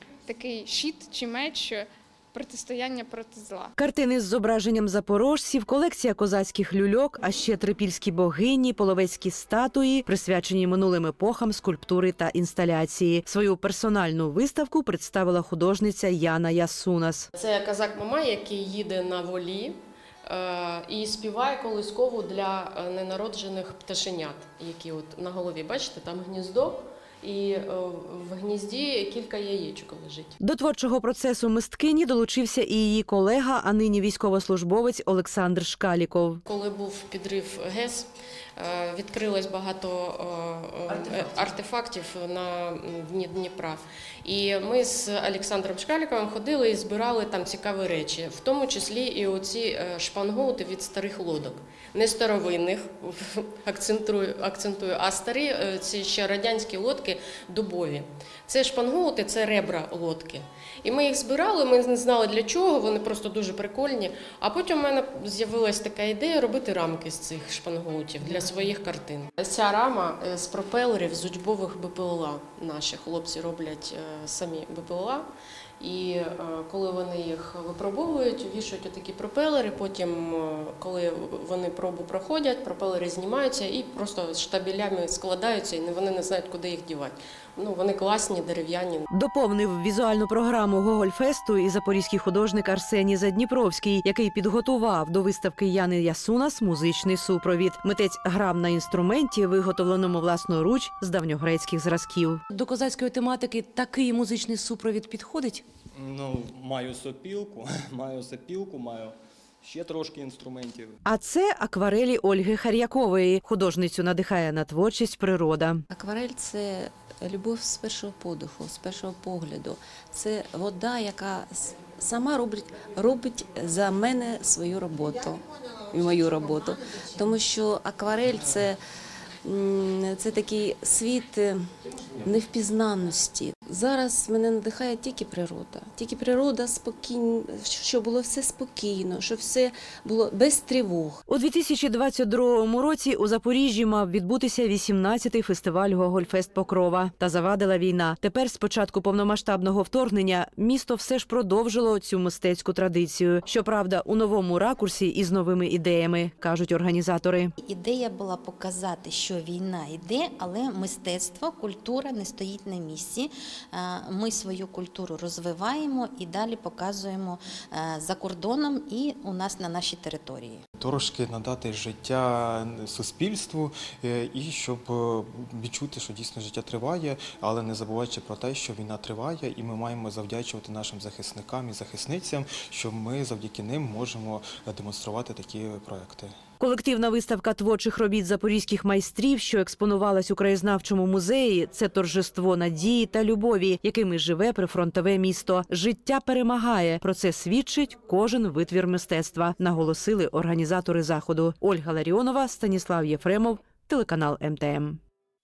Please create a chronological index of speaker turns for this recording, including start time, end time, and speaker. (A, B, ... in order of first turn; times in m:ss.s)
0:00.3-0:03.7 A
0:03.8-0:17.3 B
0:17.4-0:30.4 C
0:30.4-0:36.4 B
0:36.4-1:15.3 C
1:15.8-1:29.0 C
1:29.1-1:42.4 B
1:42.5-1:45.6 D
1:45.9-1:51.0 E
1:51.0-1:55.8 B
1:55.9-2:05.4 F
2:05.9-2:08.8 F
2:09.4-2:11.6 F
2:12.2-2:21.2 F
2:21.3-2:37.5 B
2:37.6-2:50.6 G
2:50.8-3:06.4 H
3:06.6-3:25.0 B